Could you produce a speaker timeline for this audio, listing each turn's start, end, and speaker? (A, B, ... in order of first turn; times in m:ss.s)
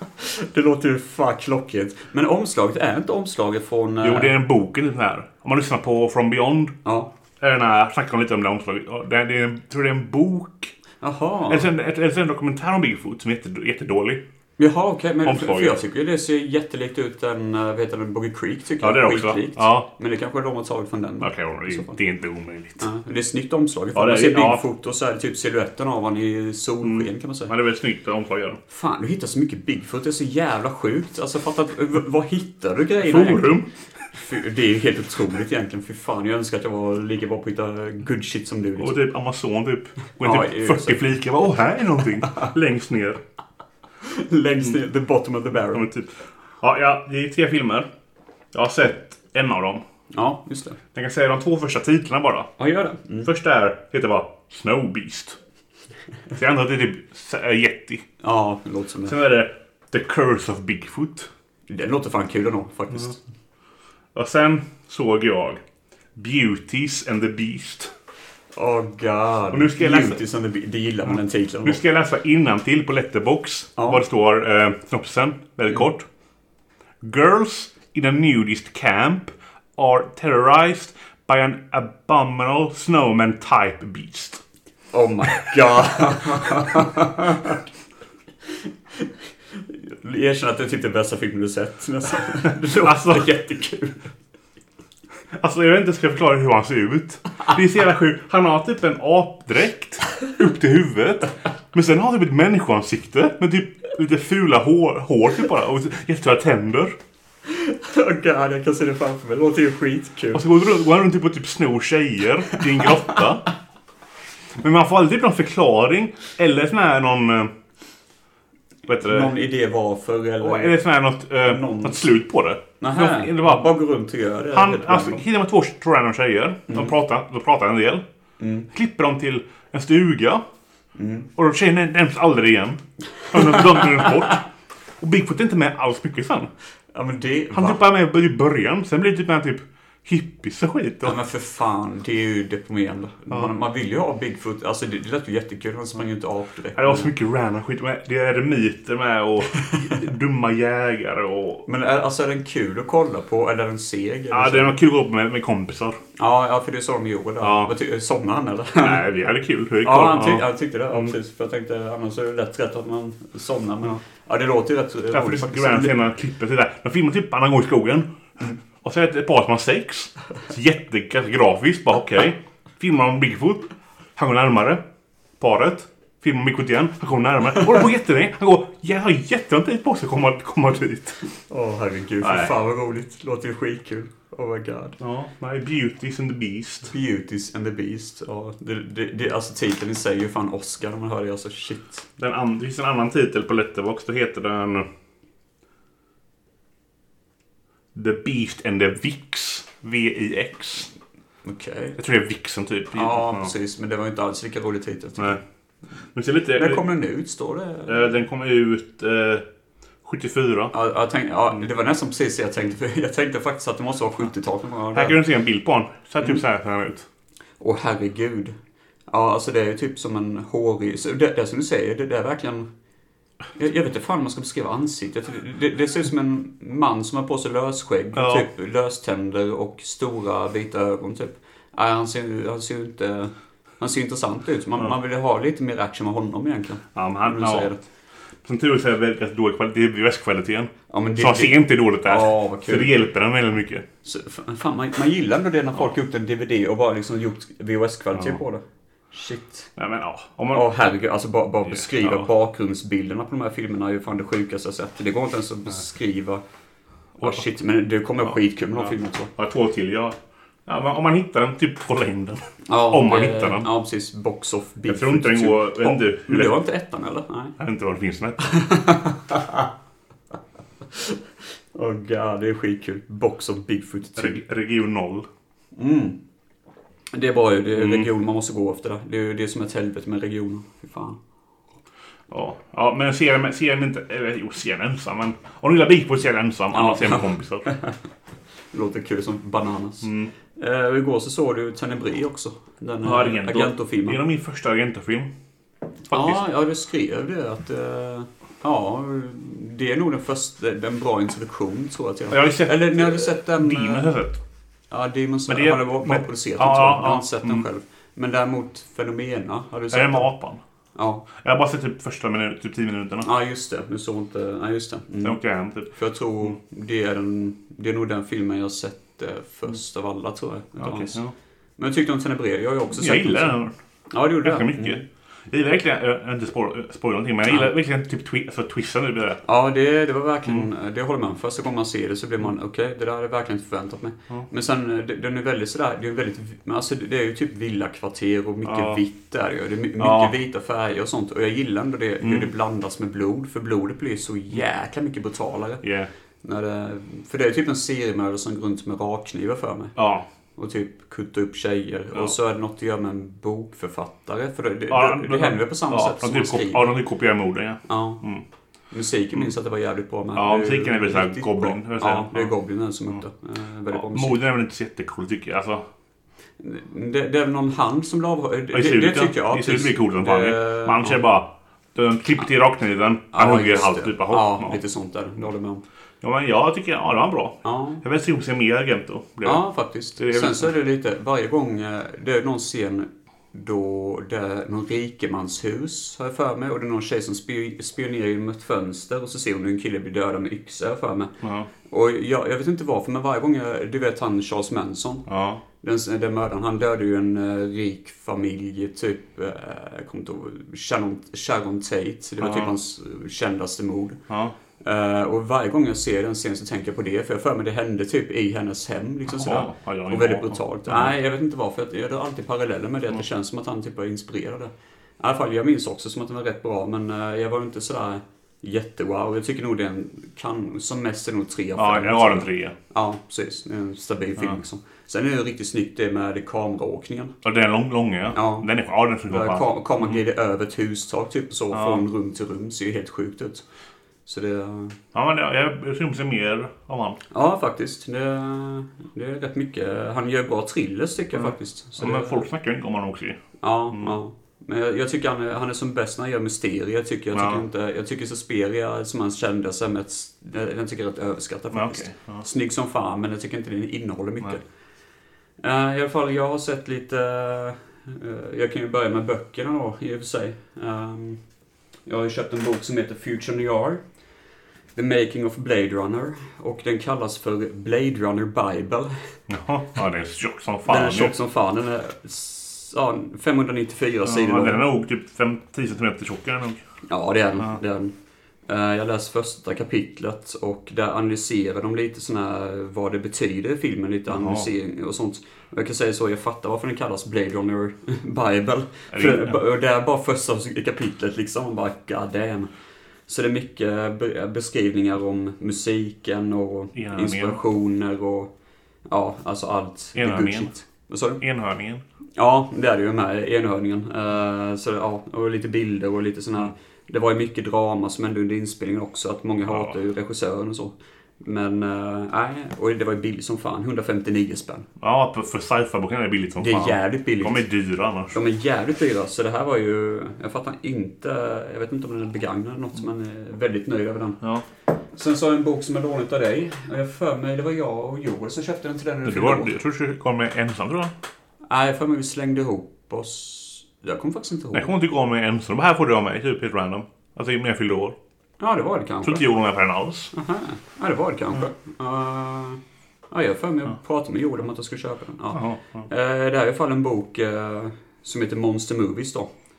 0:00.2-0:04.4 A
0:04.0-0:06.8 B
0:06.8-0:07.1 A
0:07.4-0:10.7 B
0:11.0-0:11.7 A
0:11.5-0:14.2 B
0:14.6-0:22.0 A
0:15.2-0:15.8 B
0:18.8-0:19.9 B
0:21.2-0:22.9 B
0:22.8-0:27.5 A
0:23.9-0:24.6 B
0:26.8-0:28.6 B
0:28.7-0:39.0 A
0:33.0-0:33.7 B
0:38.8-0:43.2 B
0:40.2-0:41.0 A
0:44.0-0:45.9 A
0:45.7-0:47.9 B
0:48.5-0:49.8 B
0:50.1-0:50.8 A
0:50.9-0:52.5 B
0:52.6-0:53.3 A
0:53.2-0:55.4 B
0:56.3-0:58.1 B
0:58.2-0:59.2 A
0:59.1-1:01.3 B
1:01.7-1:03.2 A
1:04.2-1:05.6 B
1:06.2-1:07.9 B
1:08.6-1:11.8 A
1:09.5-1:10.2 B
1:11.6-1:16.1 B
1:13.8-1:14.0 A
1:17.0-1:24.4 B
1:24.9-1:27.6 A
1:29.7-1:34.0 A
1:32.7-1:33.3 B
1:35.3-1:47.0 B
1:47.5-1:50.4 A
1:50.3-1:53.5 B
1:54.6-1:57.5 B
1:58.9-1:59.3 B
1:59.0-2:00.8 A
2:00.4-2:03.7 B
2:01.5-2:02.1 A
2:02.8-2:05.2 A
2:04.5-2:08.1 B
2:08.4-2:08.7 A
2:08.7-2:10.4 B
2:11.0-2:11.3 A
2:11.4-2:14.5 B
2:15.0-2:16.5 B
2:16.9-2:17.8 A
2:17.5-2:21.2 B
2:21.0-2:27.1 A
2:26.7-2:31.7 B
2:31.7-2:34.8 A
2:34.3-2:36.0 B
2:36.2-2:39.0 A
2:37.4-2:37.7 B
2:38.8-2:41.1 B
2:39.8-2:46.0 A
2:45.1-2:48.1 B
2:48.8-2:54.8 B
2:55.4-3:01.2 B
3:01.5-3:05.0 A
3:02.2-3:02.5 B
3:05.0-3:06.9 B
3:06.9-3:12.1 A
3:12.2-3:14.9 B
3:17.9-3:20.9 B
3:21.4-3:22.0 A
3:22.0-3:23.5 B
3:22.9-3:25.4 A
3:26.1-3:26.8 B
3:26.5-3:28.1 A
3:27.9-3:29.5 B
3:30.0-3:30.7 B
3:30.7-3:35.2 A
3:34.9-3:37.1 B
3:37.6-3:38.6 A
3:39.1-3:42.7 A
3:43.6-3:57.8 A
3:48.2-3:48.5 B
3:57.0-3:57.7 B
3:58.4-4:03.8 B
4:00.9-4:03.0 A
4:04.0-4:09.7 A
4:09.8-4:10.7 B
4:10.5-4:16.4 A
4:11.7-4:12.3 B
4:17.2-4:17.4 B
4:17.2-4:19.3 A
4:18.2-4:23.7 B
4:22.7-4:27.6 A
4:24.8-4:26.6 B
4:27.6-4:28.6 B
4:28.4-4:29.7 A
4:31.8-4:34.4 A
4:34.2-4:35.3 B
4:35.8-4:36.2 A
4:37.1-4:41.2 A
4:37.8-4:38.1 B
4:42.3-4:47.7 B
4:46.7-4:47.9 A
4:48.7-4:54.2 A
4:50.0-4:50.3 B
4:53.0-4:55.3 B
4:56.1-4:56.4 B
4:56.1-5:04.1 A
5:02.3-5:04.4 B
5:04.9-5:10.3 A
5:05.5-5:07.7 B
5:09.9-5:10.6 B
5:11.0-5:11.3 A
5:11.4-5:13.3 B
5:13.2-5:15.4 A
5:15.2-5:15.9 B
5:15.9-5:21.2 A
5:20.8-5:21.3 B
5:21.8-5:23.6 A
5:23.0-5:23.8 B
5:24.1-5:25.0 A
5:24.4-5:29.4 B
5:29.4-5:45.8 A
5:38.6-5:39.0 B
5:40.0-5:40.3 B
5:42.2-5:42.5 B
5:45.8-5:46.1 B
5:46.4-5:50.0 A
5:50.0-5:50.3 B
5:50.6-5:57.0 A
5:54.9-5:58.4 B
5:57.8-5:58.2 A
5:58.9-6:04.4 A
6:00.4-6:02.5 B
6:03.9-6:05.9 B
6:06.6-6:11.2 A
6:08.7-6:14.8 B
6:13.3-6:15.8 A
6:16.2-6:19.6 B
6:17.6-6:18.0 A
6:19.4-6:31.3 A
6:20.2-6:20.7 B
6:31.4-6:31.7 B
6:31.9-6:35.3 A
6:35.3-6:35.6 B
6:35.8-6:44.2 A
6:42.4-6:42.7 B
6:44.3-6:44.6 B
6:44.8-7:07.4 A
6:49.3-6:51.1 B
7:01.8-7:02.8 B
7:07.4-7:10.2 B
7:08.3-7:08.7 A
7:09.3-7:13.6 A
7:11.7-7:12.0 B
7:14.3-7:15.0 A
7:15.1-7:17.2 B
7:17.3-7:22.4 A
7:21.3-7:23.4 B
7:23.6-7:34.6 A
7:27.3-7:27.6 B
7:31.7-7:32.4 B
7:35.6-7:41.4 A
7:42.1-7:44.0 A
7:45.0-7:49.2 A
7:49.5-7:51.4 B
7:50.9-7:54.8 A
7:54.2-7:56.8 B
7:57.1-7:58.1 A
7:58.7-8:12.7 A
8:04.3-8:04.7 B
8:09.1-8:09.6 B
8:13.3-8:18.5 A
8:17.0-8:17.6 B
8:19.1-8:21.4 A
8:20.2-8:20.7 B
8:21.4-8:22.0 B
8:22.4-8:34.9 A
8:29.7-8:29.9 B
8:35.0-8:38.4 B
8:36.6-8:37.6 A
8:38.3-8:44.4 A
8:45.1-8:49.7 A
8:49.2-8:51.1 B
8:51.7-8:54.9 A
8:54.7-8:58.2 B
8:58.6-8:59.5 A
8:59.2-9:00.3 B
9:00.3-9:09.5 A
9:05.5-9:06.1 B